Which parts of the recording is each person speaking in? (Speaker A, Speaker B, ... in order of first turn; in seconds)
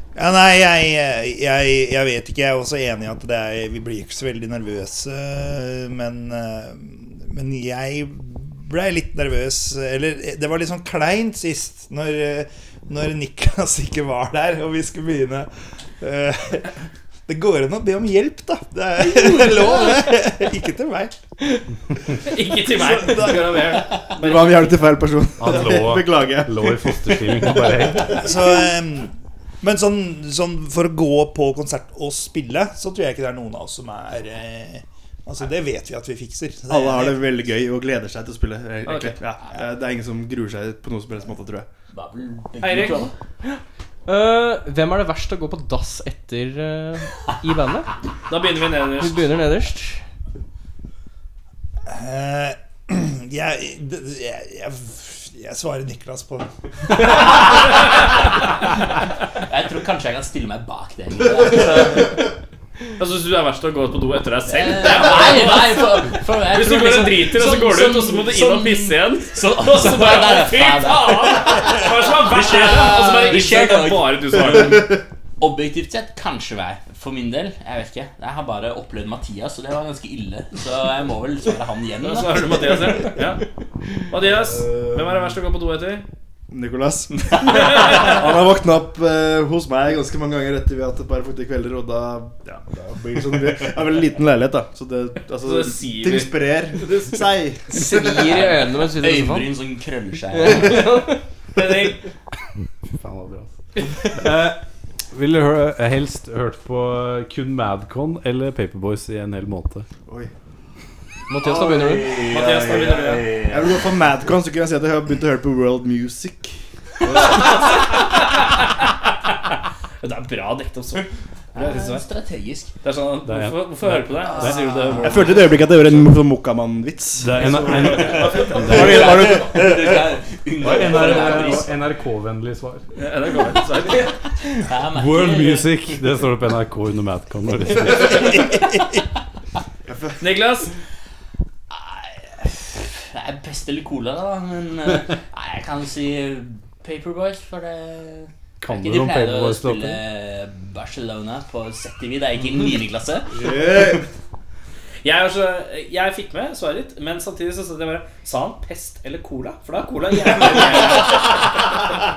Speaker A: 0.1-21.2, 22.7-23.8, 28.1-37.2, 51.9-56.5
Speaker B: 22.2-24.7, 38.9-39.1, 42.6-43.1, 48.3-49.2, 63.0-75.0, 82.0-83.4, 84.1-86.0, 87.5-88.1, 95.4-97.1, 101.5-102.0, 112.3-113.2, 117.7-118.0, 120.0-121.0, 121.7-122.0, 122.8-125.5, 127.6-128.6, 131.1-131.6, 132.9-134.1, 140.2-140.7, 155.0-161.4
Speaker C: 24.1-28.3, 36.7-41.7, 84.2-85.3, 86.5-97.7, 110.0-110.3, 112.3-117.8, 121.6-121.9, 125.0-129.8, 139.8-140.2, 153.3-154.1
Speaker D: 25.4-28.2, 102.9-103.5, 104.1-104.6, 105.1-109.9, 123.2-124.5, 127.2-129.3, 130.6-132.8, 134.9-138.3, 148.6-150.0
Speaker E: 41.9-43.1, 57.0-58.4, 59.4-62.2, 64.4-82.7, 97.8-101.0, 111.4-113.9, 121.5-122.7, 124.1-126.1, 127.8-131.8, 134.6-136.0, 141.7-153.3, 160.5-161.0
Speaker F: 43.5-47.9, 49.0-50.0, 97.7-99.5, 100.3-101.2, 111.3-112.1